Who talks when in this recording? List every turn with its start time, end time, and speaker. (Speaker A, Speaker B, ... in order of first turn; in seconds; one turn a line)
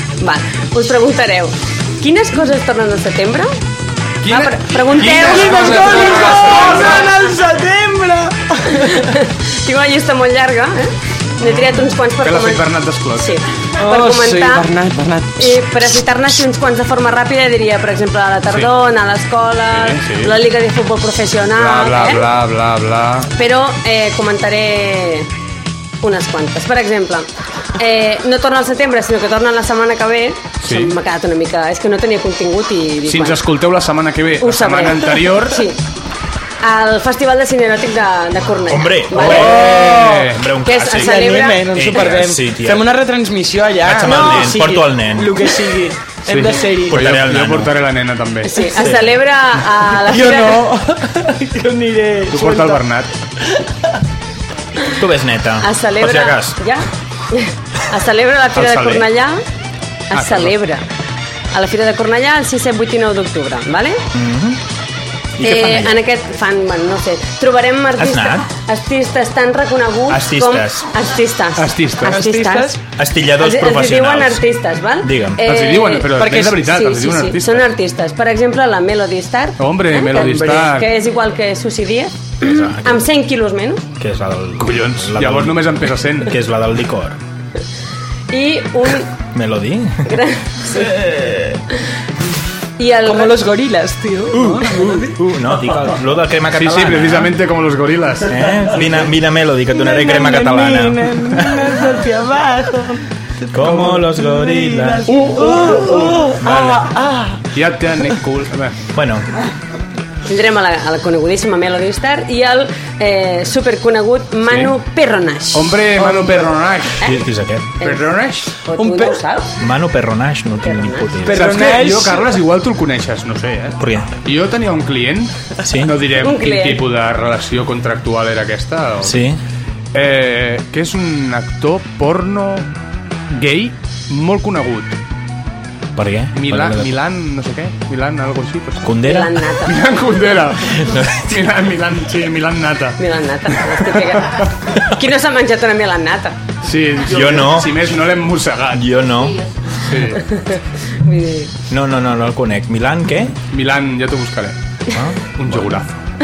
Speaker A: 0.2-3.5
Speaker B: 4.2-7.1
Speaker A: 4.3-6.4
Speaker C: 5.1-9.1
Speaker A: 8.9-12.6
Speaker B: 12.2-13.4
Speaker A: 13.2-14.7
Speaker C: 13.8-15.6
Speaker A: 15.4-22.3
Speaker B: 19.7-20.4
Speaker B: 21.5-23.3
Speaker A: 23.4-25.3
Speaker A: 26.0-27.3
Speaker A: 27.8-33.4
Speaker B: 30.6-30.9
Speaker B: 33.1-35.6
Speaker A: 34.4-35.8
Speaker A: 36.6-39.7
Speaker D: 38.7-42.9
Speaker C: 39.2-40.3
Speaker B: 39.9-40.4
Speaker A: 40.6-41.7
Speaker C: 40.9-47.0
Speaker D: 43.8-45.5
Speaker B: 46.3-48.6
Speaker D: 46.9-47.7
Speaker A: 48.5-50.7
Speaker D: 48.8-49.1
Speaker C: 50.1-52.8
Speaker B: 52.3-53.1
Speaker D: 55.0-56.6
Speaker A: 55.6-59.4
Speaker B: 58.6-59.1
Speaker A: 60.1-60.8
Speaker B: 60.1-60.5
Speaker A: 61.5-64.0
Speaker D: 64.1-64.6
Speaker D: 65.4-66.0
Speaker A: 65.4-72.8
Speaker D: 68.0-68.5
Speaker D: 70.1-70.9
Speaker B: 71.6-72.2
Speaker C: 72.0-72.8
Speaker D: 73.0-74.4
Speaker A: 73.4-83.8
Speaker D: 75.0-75.4
Speaker B: 75.4-77.7
Speaker C: 76.2-76.6
Speaker B: 79.6-80.9
Speaker C: 80.2-80.7
Speaker D: 82.4-83.0
Speaker D: 84.0-85.7
Speaker B: 84.6-86.3
Speaker D: 86.2-87.2
Speaker A: 88.3-89.1
Speaker D: 89.3-90.1
Speaker A: 90.1-90.9
Speaker D: 90.7-91.5
Speaker A: 92.8-93.4
Speaker C: 93.0-95.1
Speaker D: 94.3-97.3
Speaker B: 96.6-98.5
Speaker D: 98.2-101.8
Speaker C: 99.7-107.5
Speaker D: 103.5-106.8
Speaker B: 105.1-106.1
Speaker B: 107.5-108.8
Speaker D: 108.9-109.3
Speaker A: 110.3-115.8
Speaker B: 115.5-117.1
Speaker C: 116.1-116.4
Speaker D: 117.0-117.7
Speaker A: 117.8-118.1
Speaker B: 117.8-118.5
Speaker A: 118.6-119.5
Speaker C: 118.8-119.2
Speaker D: 119.6-121.6
Speaker A: 120.6-121.2
Speaker C: 121.2-122.2
Speaker B: 121.3-129.2
Speaker D: 123.8-124.1
Speaker D: 125.6-125.9
Speaker A: 126.2-126.8
Speaker D: 129.0-129.4
Speaker B: 129.9-132.7
Speaker B: 133.3-135.0
Speaker D: 135.9-136.9
Speaker B: 136.3-139.0
Speaker D: 138.8-139.4
Speaker A: 139.0-139.8
Speaker B: 139.7-143.0
Speaker D: 140.8-141.3
Speaker A: 143.0-146.4
Speaker B: 143.6-144.5
Speaker B: 146.6-148.9
Speaker D: 147.1-147.8
Speaker D: 148.7-149.5
Speaker B: 149.8-150.2
Speaker A: 150.3-151.5
Speaker D: 151.7-153.4
Speaker B: 153.5-154.6
Speaker D: 154.9-155.7
Speaker B: 155.3-156.0